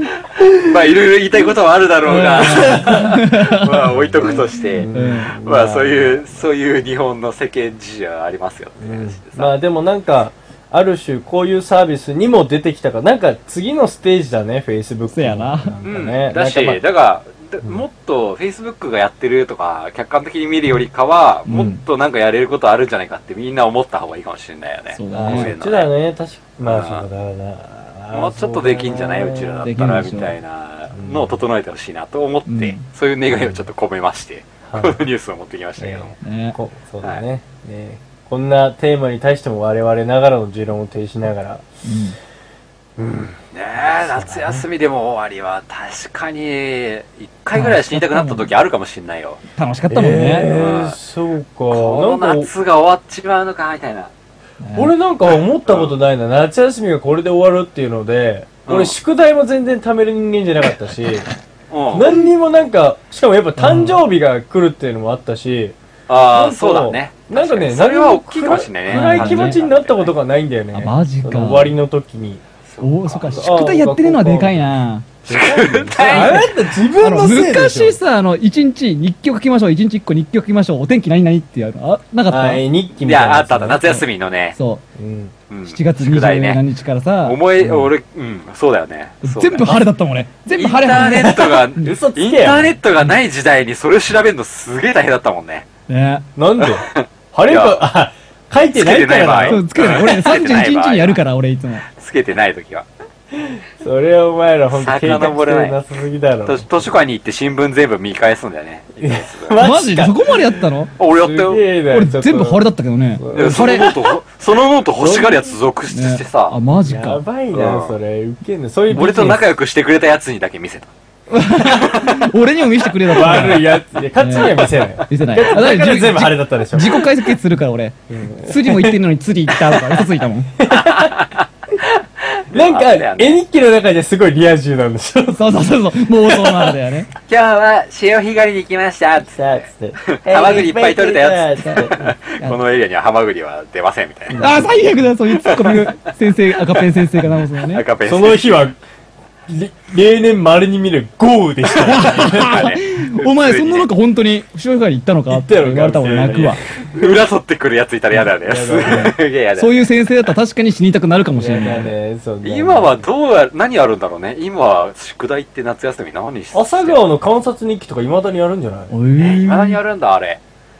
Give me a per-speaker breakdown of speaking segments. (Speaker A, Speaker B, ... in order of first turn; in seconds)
Speaker A: 0.4-0.8, 2.1-3.2, 3.9-6.4, 8.8-16.8, 25.1-29.7, 30.9-31.4, 33.3-33.6, 34.7-35.0, 35.8-41.6, 43.0-44.6, 49.9-52.5, 54.8-61.3, 61.9-65.8, 66.3-72.4, 73.3-74.6, 75.2-78.0, 82.3-83.8, 85.0-85.3, 87.6-87.9, 91.0-92.7, 96.4-99.6, 103.4-106.7, 109.0-114.2, 115.0-115.5, 116.8-119.4, 123.1-127.0, 128.1-129.0, 130.6-131.2, 132.5-135.5, 136.3-136.7, 139.2-142.2, 144.3-144.7, 148.1-148.8, 149.5-152.6, 155.3-157.1, 158.4-159.1, 161.4-163.0, 166.5-168.9
Speaker B: 0.6-9.5, 15.8-25.9, 26.7-27.1, 28.1-36.2, 43.3-49.4, 50.5-51.0, 51.7-54.1, 55.7-55.9, 58.7-59.0, 61.7-62.3, 66.1-70.1, 72.7-73.5, 75.3-76.5, 83.0-84.6, 85.5-86.6, 87.2-89.8, 90.5-95.7, 96.6-97.8, 98.7-101.2, 101.9-102.9, 104.7-105.8, 106.5-109.6, 111.0-111.6, 113.3-116.6, 117.5-118.0, 118.9-120.9, 121.7-122.3, 130.7-133.4, 137.3-139.4, 140.1-144.5, 145.4-145.9, 147.7-148.7, 151.9-153.9, 156.3-160.3, 162.4-167.0, 169.2-170.4
Speaker C: 2.2-4.0, 4.9-5.3, 15.1-15.8, 21.5-21.8, 24.9-25.5, 29.6-30.4, 32.5-32.8, 36.2-36.6, 41.8-42.2, 47.5-48.5, 49.5-50.5, 54.6-54.9, 63.6-64.0, 68.9-69.6, 70.7-71.8, 72.8-75.1, 76.0-82.6, 84.5-84.8, 85.7-87.4, 89.2-91.9, 95.9-96.3, 99.5-101.9, 109.6-110.9, 111.9-113.9, 115.9-117.2, 119.0-119.4, 121.3-130.5, 135.3-137.1, 141.7-142.6, 144.4-147.9, 151.8-156.6, 158.9-161.9, 168.9-169.8